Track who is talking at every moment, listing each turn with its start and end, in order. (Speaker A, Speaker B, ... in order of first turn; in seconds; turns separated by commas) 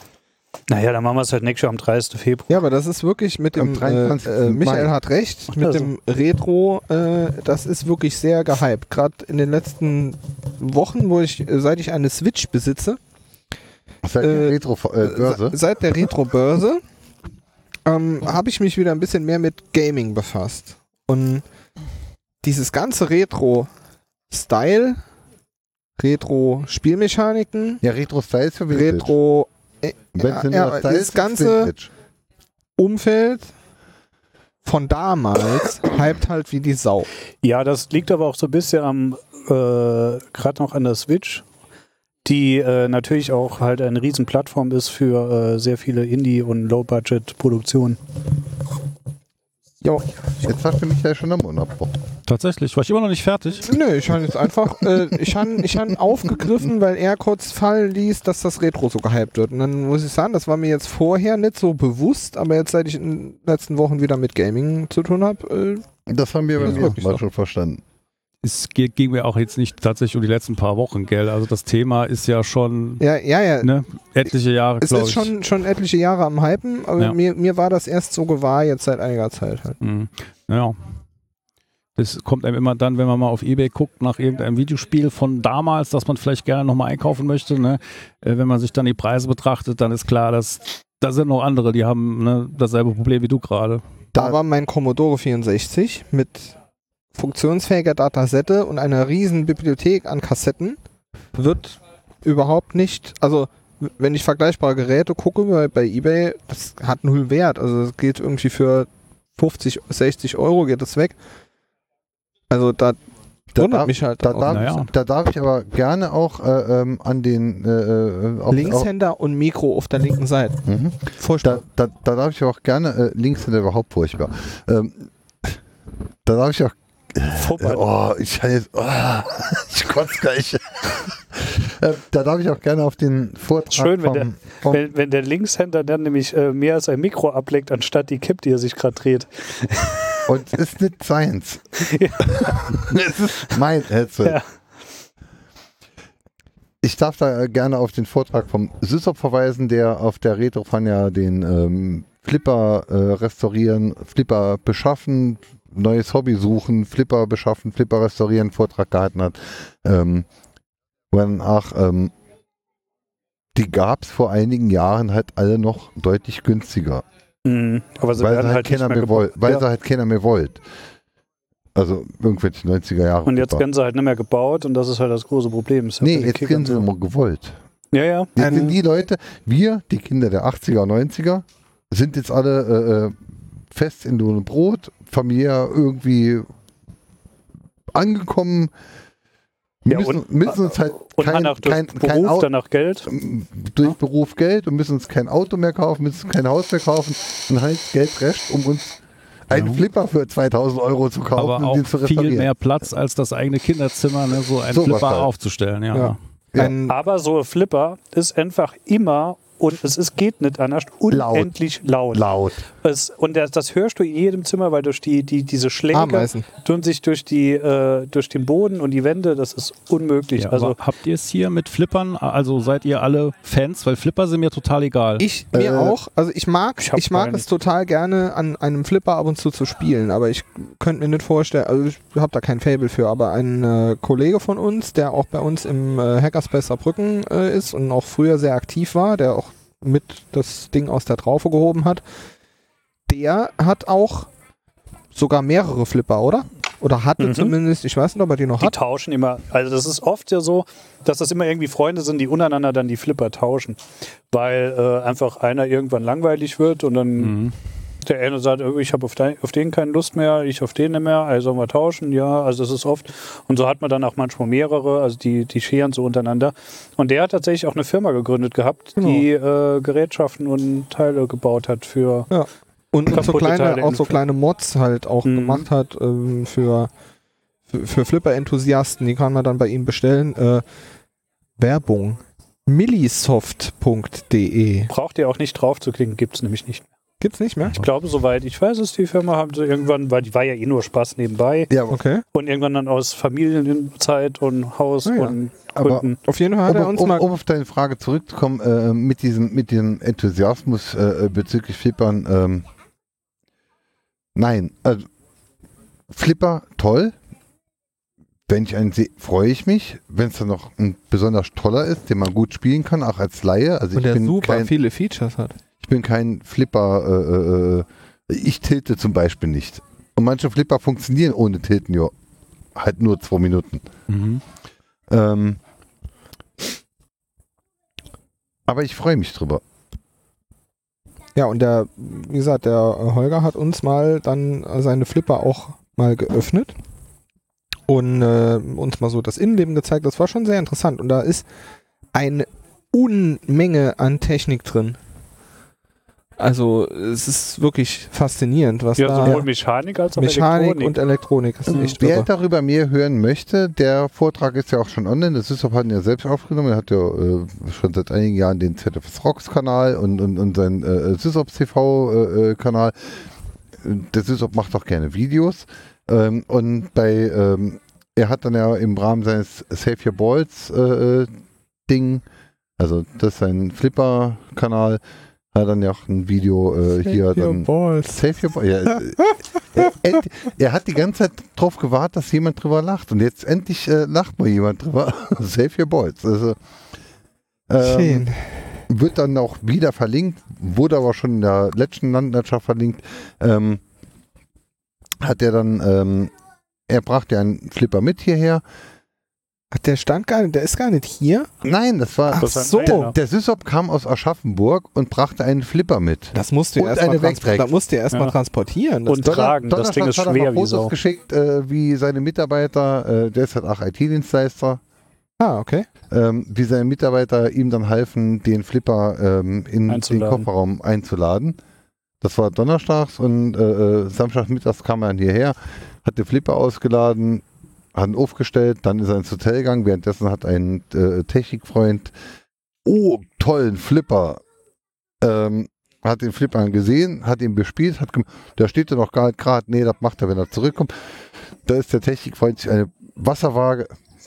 Speaker A: 0.7-2.5, Speaker B: 2.5-13.0, Speaker C: 3.5-4.9, Speaker C: 14.0-15.6, Speaker B: 14.2-16.8, Speaker B: 17.9-21.4, Speaker B: 22.4-23.7, Speaker B: 24.3-25.0, Speaker B: 26.0-27.8, Speaker C: 27.8-29.1, Speaker B: 28.7-31.7, Speaker C: 30.1-31.9, Speaker B: 32.8-33.5, Speaker B: 34.6-37.1, Speaker A: 37.4-41.4, Speaker A: 42.2-48.0, Speaker C: 50.4-51.9, Speaker D: 52.2-53.7, Speaker B: 53.6-65.8, Speaker C: 66.1-67.8, Speaker B: 66.6-67.2, Speaker D: 66.6-66.9, Speaker D: 68.4-73.0, Speaker B: 73.0-73.7, Speaker D: 73.6-75.3, Speaker B: 74.8-79.8, Speaker D: 79.8-80.8, Speaker D: 82.0-93.8, Speaker B: 94.2-96.6, Speaker B: 97.1-100.8, Speaker B: 101.3-111.2, Speaker B: 112.5-113.0, Speaker C: 113.5-118.9, Speaker B: 113.6-114.7, Speaker D: 114.5-114.9, Speaker B: 118.5-120.6, Speaker C: 120.7-125.5, Speaker B: 121.2-121.6, Speaker C: 126.2-134.8, Speaker A: 127.3-127.8, Speaker A: 133.7-140.2, Speaker C: 140.3-141.6, Speaker A: 141.8-142.9, Speaker C: 142.2-144.4, Speaker C: 146.8-160.3, Speaker C: 161.1-162.1, Speaker C: 163.5-167.0, Speaker A: 167.4-169.6, Speaker C: 168.2-170.6, Speaker C: 171.7-173.6, Speaker A: 173.2-176.8, Speaker C: 176.0-177.6, Speaker A: 177.9-178.3, Speaker C: 178.3-183.2, Speaker B: 178.4-178.8, Speaker C: 183.7-186.5, Speaker C: 187.9-188.7, Speaker C: 189.8-192.5, Speaker A: 189.9-193.1, Speaker C: 193.1-199.0, Speaker C: 199.5-202.5, Speaker D: 199.5-199.8, Speaker D: 201.3-206.2, Speaker C: 204.7-205.3, Speaker B: 205.9-207.0, Speaker A: 206.8-220.8, Speaker C: 211.1-211.5, Speaker C: 212.1-212.6, Speaker B: 215.9-216.5, Speaker D: 220.4-225.3, Speaker B: 225.2-242.0, Speaker C: 225.5-226.0, Speaker A: 226.8-227.4, Speaker B: 243.1-244.3, Speaker B: 245.1-248.8, Speaker A: 247.2-247.5, Speaker A: 248.6-257.4, Speaker D: 257.2-257.5, Speaker A: 258.0-272.3, Speaker B: 269.0-269.2, Speaker B: 272.3-276.9, Speaker A: 273.1-274.2, Speaker A: 275.2-275.6, Speaker B: 277.7-280.6, Speaker B: 281.6-284.9, Speaker A: 284.9-286.9, Speaker B: 287.2-287.8, Speaker A: 287.8-291.7, Speaker C: 291.7-292.0, Speaker B: 291.9-292.2, Speaker A: 292.3-296.2, Speaker B: 295.0-295.4, Speaker C: 295.7-296.1, Speaker B: 296.2-297.3, Speaker C: 296.6-302.6, Speaker C: 304.4-305.1, Speaker C: 306.1-307.1, Speaker C: 308.5-314.7, Speaker B: 313.9-315.6, Speaker C: 315.8-322.1, Speaker C: 322.7-323.9, Speaker D: 324.1-324.4, Speaker C: 325.1-325.6, Speaker C: 328.7-329.6, Speaker B: 331.3-336.7, Speaker B: 337.9-341.4, Speaker B: 342.1-345.0, Speaker B: 346.4-349.4, Speaker A: 349.0-350.9, Speaker B: 350.1-352.3, Speaker A: 351.7-351.9, Speaker C: 351.7-362.9, Speaker C: 363.8-371.3, Speaker C: 371.9-372.2, Speaker C: 372.8-375.0, Speaker C: 375.5-386.6, Speaker B: 377.0-378.2, Speaker B: 378.9-379.2, Speaker C: 387.7-388.3, Speaker B: 387.8-388.7, Speaker C: 388.9-393.8, Speaker C: 395.2-396.3, Speaker C: 396.9-398.6, Speaker B: 399.7-401.5, Speaker C: 401.6-407.7, Speaker B: 402.3-403.1, Speaker A: 402.3-403.1, Speaker B: 406.3-409.4, Speaker A: 409.1-410.9, Speaker C: 409.2-414.8, Speaker B: 415.4-415.9, Speaker C: 416.1-421.6, Speaker A: 419.9-420.5, Speaker C: 422.2-427.4, Speaker C: 427.9-432.1, Speaker C: 432.8-434.4, Speaker C: 435.2-440.9, Speaker C: 441.6-443.9